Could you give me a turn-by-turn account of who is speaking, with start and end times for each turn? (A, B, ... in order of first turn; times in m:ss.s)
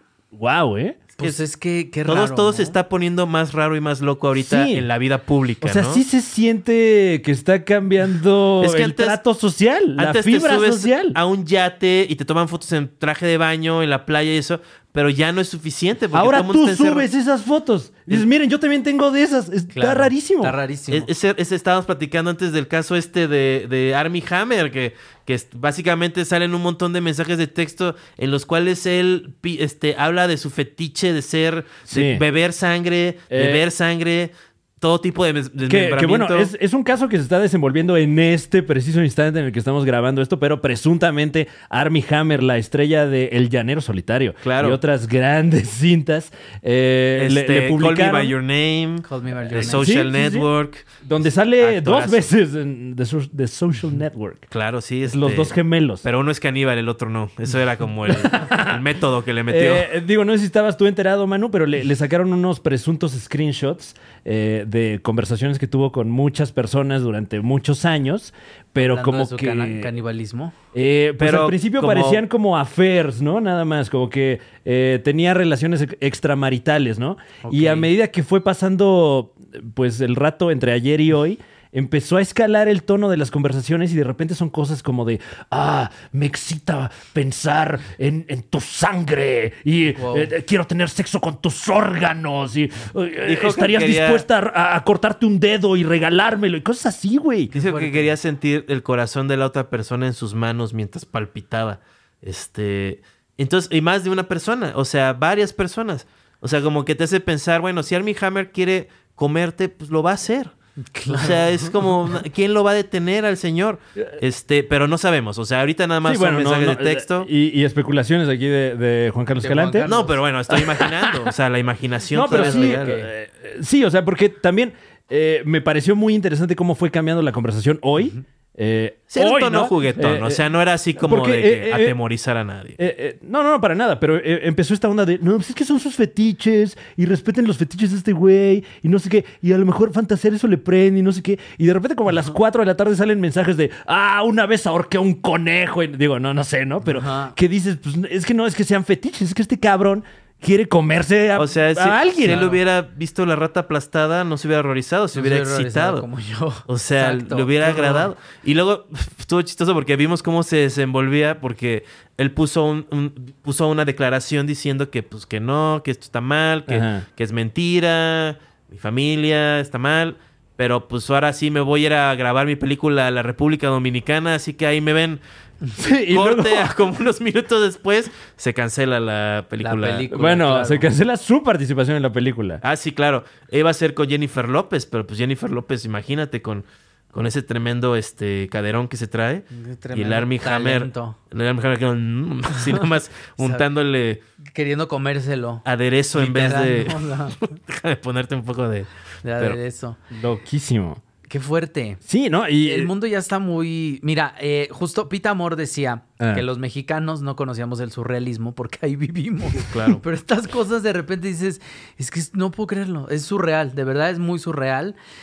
0:00.3-0:01.0 A
0:01.2-0:02.8 B
0:02.0-0:06.0 C
0:04.4-0:04.9 A
0:05.6-0:11.2 A
0:08.6-0:09.2 C
0:10.0-0:17.1 C
0:16.1-0:20.6 A
0:19.7-0:21.1 B
0:20.9-0:36.5 C
0:31.9-0:32.2 A
0:33.3-0:33.6 A
0:35.6-0:48.4 A
0:44.4-0:44.8 C
0:47.2-0:51.0 C
0:49.0-0:50.0 B
0:49.5-0:50.5 A
0:51.0-0:54.5 A
0:51.6-0:52.3 C
0:54.5-0:59.9 C
0:55.0-0:56.0 A
0:58.1-0:58.8 A
0:59.5-1:09.9 A
1:08.8-1:10.5 B
1:10.7-1:37.5 A
1:11.2-1:12.2 C
1:17.4-1:17.9 B
1:29.9-1:30.3 B
1:33.2-1:34.2 C
1:37.5-1:38.1 B
1:37.5-1:50.5 C
1:50.9-1:51.7 B
1:51.1-1:57.3 C
1:56.0-1:59.9 A
1:59.4-2:00.2 B
1:59.9-2:02.9 C
2:00.5-2:01.2 A
2:02.1-2:10.4 A
2:02.2-2:03.1 B
2:09.1-2:12.8 C
2:11.0-2:12.0 A
2:12.8-2:32.4 A
2:26.8-2:27.3 B
2:31.4-2:36.0 C
2:32.2-2:32.6 B
2:35.1-2:38.1 B
2:36.7-2:55.2 C
2:46.7-2:47.0 A
2:55.8-2:56.7 A
2:56.1-3:00.2 C
2:59.6-3:00.9 B
3:00.1-3:02.6 A
3:02.6-3:14.2 C
3:09.5-3:11.2 B
3:13.4-3:13.6 B
3:14.5-3:17.4 B
3:15.6-3:19.6 C
3:19.2-3:20.0 B
3:20.1-3:21.0 A
3:21.2-3:22.0 B
3:22.0-3:22.9 A
3:22.6-3:35.0 B
3:26.2-3:26.4 A
3:29.7-3:30.0 C